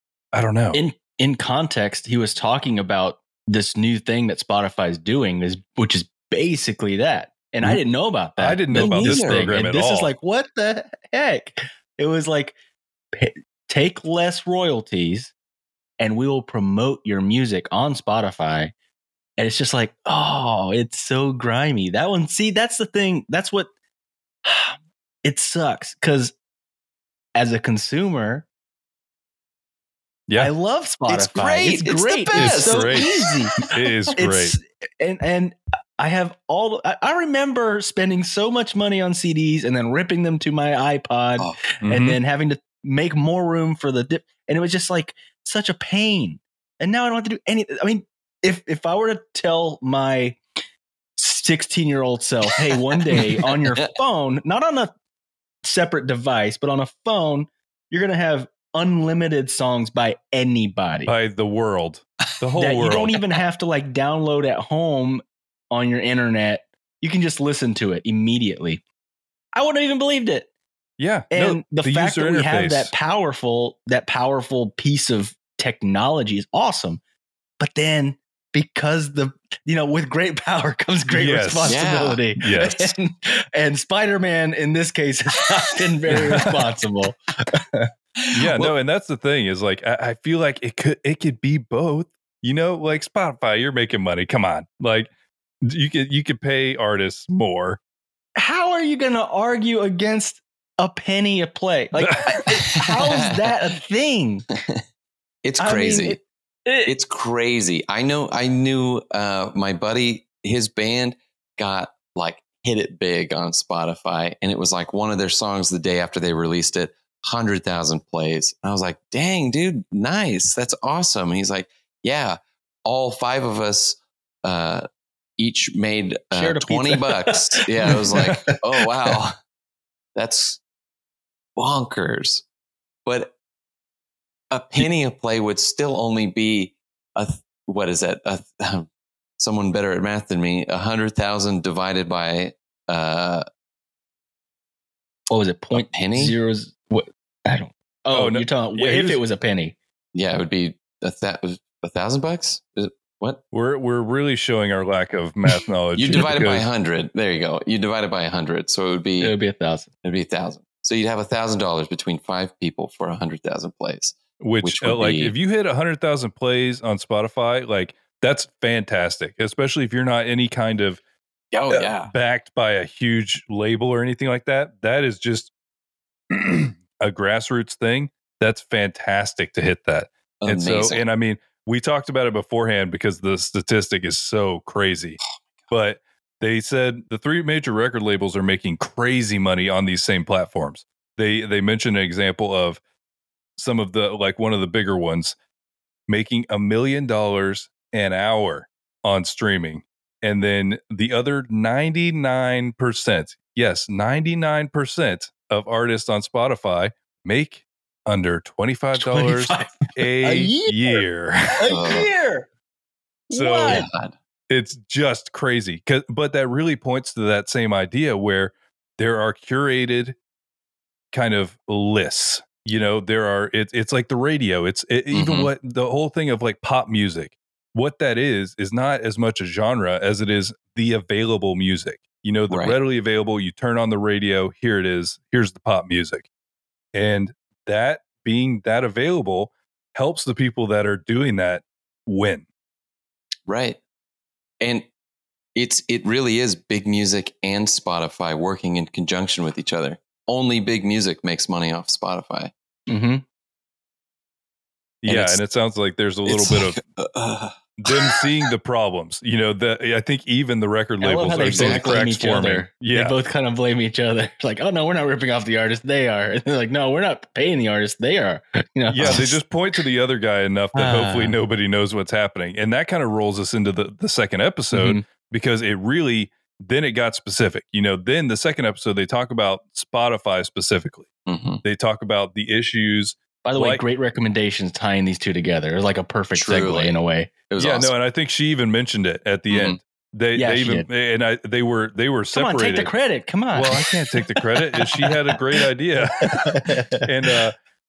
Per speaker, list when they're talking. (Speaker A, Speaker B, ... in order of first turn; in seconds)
Speaker A: 0.3-0.8, 8.4-10.1, 32.3-34.5, 41.8-42.2, 61.1-63.1, 71.0-72.9, 81.1-81.8, 82.4-82.9, 86.1-86.6, 88.3-95.1, 95.6-97.8, 102.0-102.5, 148.1-149.2, 153.5-156.7, 164.4-171.0, 171.7-175.5, 176.3-192.8, 193.6-195.3, 196.1-211.7, 213.3-213.9, 214.5-220.2, 221.1-236.3, 236.9-242.4, 255.0-256.8, 257.8-263.1, 268.9-281.1, 281.6-283.8, 287.6-292.9, 293.5-297.6
Speaker B: 0.7-12.6, 13.1-15.3, 16.0-18.7, 19.4-23.7, 24.4-26.4, 27.4-28.5, 30.4-50.4, 51.2-54.9, 55.6-61.1, 62.6-68.8, 69.5-70.5, 71.3-77.0, 77.6-87.9, 98.4-104.5, 105.6-106.9, 126.3-128.3, 145.3-149.8, 159.2-159.9, 209.0-211.0, 211.6-212.5, 213.3-213.9, 252.9-253.2, 261.0-269.4, 270.8-271.4, 274.7-275.0, 283.4-287.3, 290.4-290.9, 292.3-295.1, 296.2-297.1
Speaker C: 8.7-9.5, 31.1-33.1, 81.6-82.2, 102.8-103.5, 105.4-106.2, 106.8-124.8, 125.4-129.4, 130.1-130.6, 131.6-132.4, 133.1-133.3, 134.5-138.9, 139.4-143.4, 145.7-146.3, 150.1-153.4, 156.0-159.3, 160.0-165.3, 171.5-172.1, 180.4-181.0, 211.7-212.1, 213.7-214.1, 225.1-225.5, 232.5-232.8, 243.5-243.8, 244.6-244.9, 245.6-252.5, 255.1-255.4, 256.3-258.2, 261.5-262.0, 281.3-281.6, 286.3-287.0, 287.5-287.9, 289.5-289.8